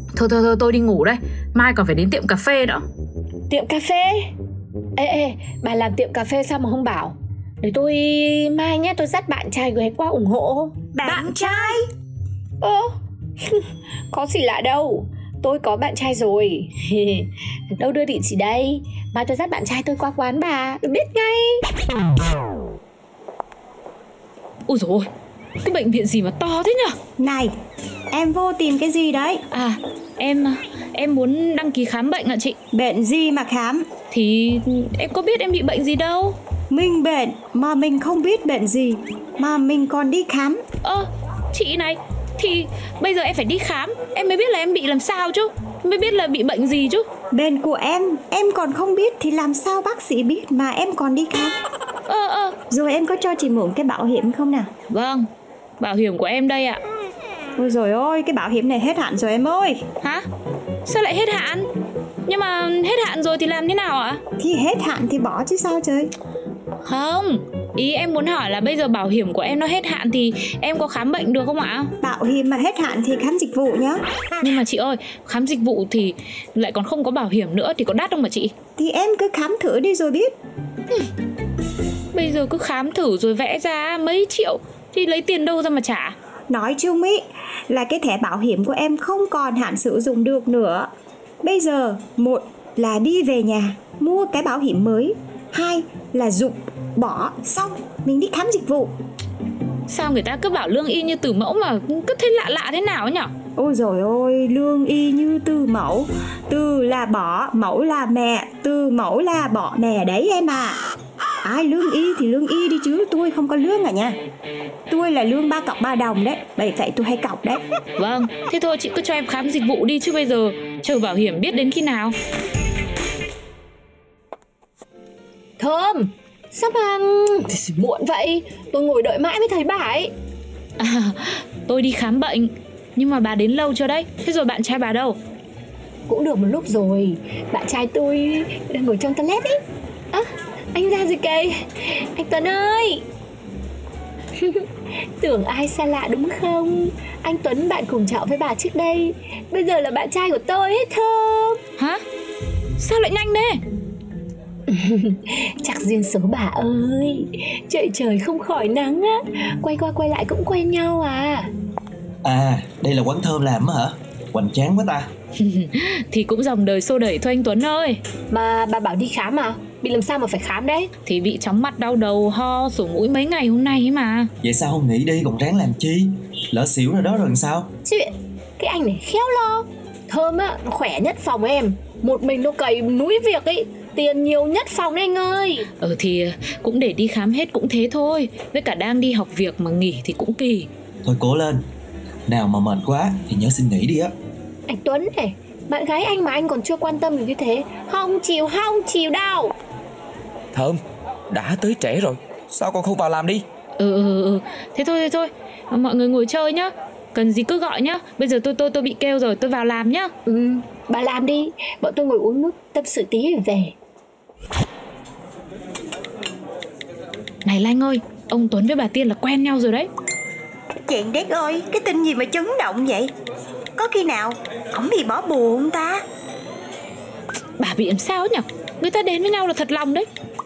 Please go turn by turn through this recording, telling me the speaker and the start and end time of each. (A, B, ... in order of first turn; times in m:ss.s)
0:00.1-0:02.8 A
0:03.5-0:04.3 B
0:05.0-0:10.8 B
0:10.9-0:11.8 C
0:11.1-0:11.5 A
0:12.6-0:12.9 B
0:13.4-0:21.6 B
0:24.7-0:25.1 A
0:25.6-0:27.0 A
0:27.2-0:27.6 C
0:28.1-0:29.4 C
0:29.5-0:32.6 A
0:32.7-0:33.9 C
0:34.1-0:36.4 A
0:36.7-0:40.6 C
0:40.8-0:47.1 A
0:47.3-0:51.6 C
0:52.1-0:52.6 A
0:52.7-0:54.7 C
0:54.9-0:55.3 A
0:55.8-0:56.8 A
0:57.6-0:59.8 C
1:00.8-1:01.7 A
1:02.3-1:04.2 A
1:04.4-1:06.1 C
1:06.8-1:11.9 A
1:12.0-1:14.0 C
1:14.4-1:18.5 A
1:18.8-1:20.3 C
1:22.1-1:26.2 A
1:26.5-1:30.9 C
1:31.4-1:39.0 C
1:39.9-1:43.3 A
1:43.6-1:50.8 C
1:51.4-1:54.2 C
1:54.9-1:57.6 C
1:58.0-2:02.2 A
2:05.6-2:10.1 B
2:10.8-2:15.2 A
2:16.1-2:19.6 B
2:20.1-2:23.0 B
2:24.4-2:24.7 B
2:25.2-2:31.6 B
2:32.8-2:33.6 A
2:34.7-2:41.5 B
2:42.2-2:45.1 D
2:45.4-2:48.0 A
2:48.3-2:50.9 B
2:51.1-2:54.3 A
2:54.4-2:57.7 D
2:57.8-3:05.7 B
3:05.8-3:10.7 A
3:11.0-3:11.6 D
3:12.3-3:14.1 D
3:14.7-3:19.5 B
3:20.5-3:23.5 E
3:23.8-3:30.1 A
3:30.3-3:33.7 B
3:37.4-3:39.9 A
3:40.9-3:43.1 C
3:43.8-3:46.0 C
3:47.6-3:50.1 A